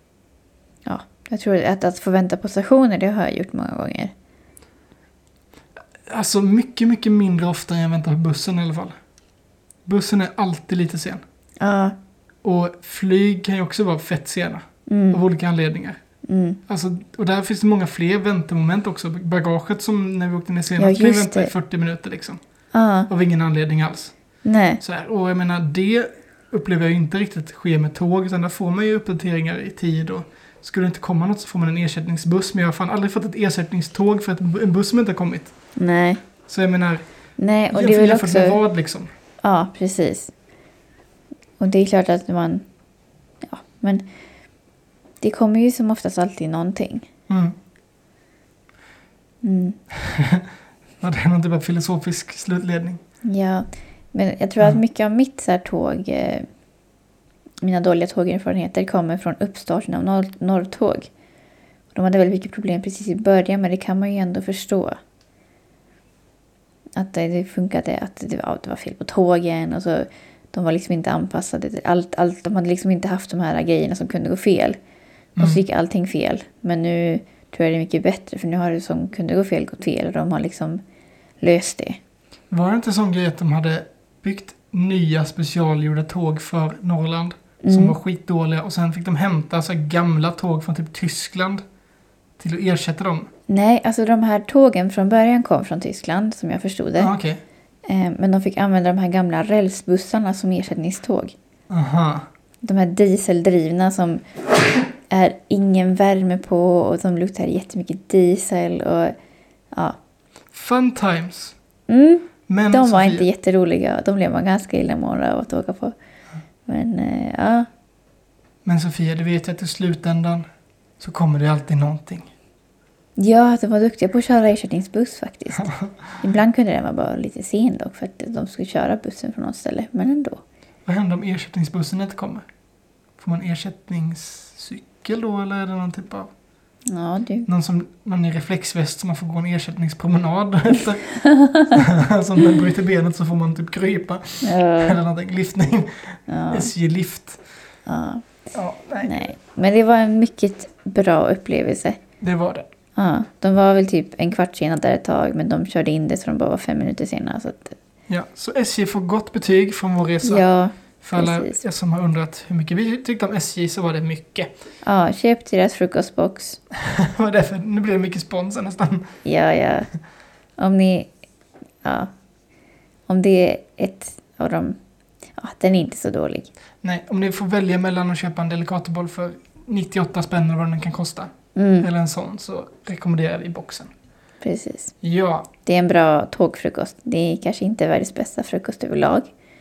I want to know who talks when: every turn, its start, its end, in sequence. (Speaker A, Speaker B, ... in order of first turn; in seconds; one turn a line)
Speaker A: 0.8-4.1
Speaker B: 6.0-8.9
Speaker B: 9.8-11.2
Speaker A: 11.6-11.9
Speaker B: 12.4-16.0
Speaker A: 14.9-15.2
Speaker A: 16.2-16.6
Speaker B: 16.7-22.4
Speaker A: 20.8-21.5
Speaker A: 22.7-23.1
Speaker B: 23.1-24.1
Speaker A: 24.4-24.8
Speaker B: 24.8-35.5
Speaker A: 35.8-36.2
Speaker B: 36.5-37.0
Speaker A: 37.4-38.6
Speaker B: 37.7-39.1
Speaker A: 39.4-40.3
Speaker A: 41.6-42.6
Speaker A: 43.4-44.0
Speaker A: 45.2-47.1
Speaker B: 47.3-47.5
Speaker A: 49.4-49.8
Speaker B: 49.9-50.5
Speaker B: 51.0-53.0
Speaker A: 53.2-56.5
Speaker A: 57.6-61.1
Speaker A: 61.9-65.0
Speaker A: 67.0-74.8
Speaker B: 75.3-75.6
Speaker A: 75.4-80.8
Speaker A: 81.4-82.0
Speaker B: 82.5-91.6
Speaker A: 87.6-87.9
Speaker B: 92.4-93.3
Speaker A: 93.5-97.1
Speaker B: 97.0-97.4
Speaker A: 97.8-101.3
Speaker B: 101.7-102.2
Speaker A: 102.6-104.2
Speaker A: 105.1-109.1
Speaker A: 109.7-110.0
Speaker B: 110.5-111.5
Speaker A: 111.9-115.9
Speaker B: 112.5-113.3
Speaker A: 116.7-117.7
Speaker B: 118.6-120.4
Speaker B: 121.0-122.3
Speaker A: 123.2-130.4
Speaker B: 125.6-125.9
Speaker B: 130.8-132.4
Speaker B: 133.2-136.3
Speaker A: 136.9-137.5
Speaker B: 137.5-141.1
Speaker A: 141.1-141.8
Speaker B: 141.7-147.4
Speaker A: 144.4-145.0
Speaker A: 146.3-146.7
Speaker A: 147.8-148.2
Speaker B: 148.5-149.2
Speaker A: 149.0-152.0
Speaker B: 152.2-152.7
Speaker A: 152.9-157.8
Speaker B: 158.1-160.4
Speaker A: 160.2-161.6
Speaker B: 161.0-164.5
Speaker A: 164.8-166.6
Speaker B: 166.7-169.1
Speaker A: 169.2-169.9
Speaker A: 170.6-171.1
Speaker A: 171.8-172.1
Speaker A: 173.1-174.8
Speaker A: 175.4-176.5
Speaker B: 176.8-183.9
Speaker A: 181.6-181.9
Speaker A: 184.4-184.9
Speaker B: 185.0-185.5
Speaker A: 185.6-189.3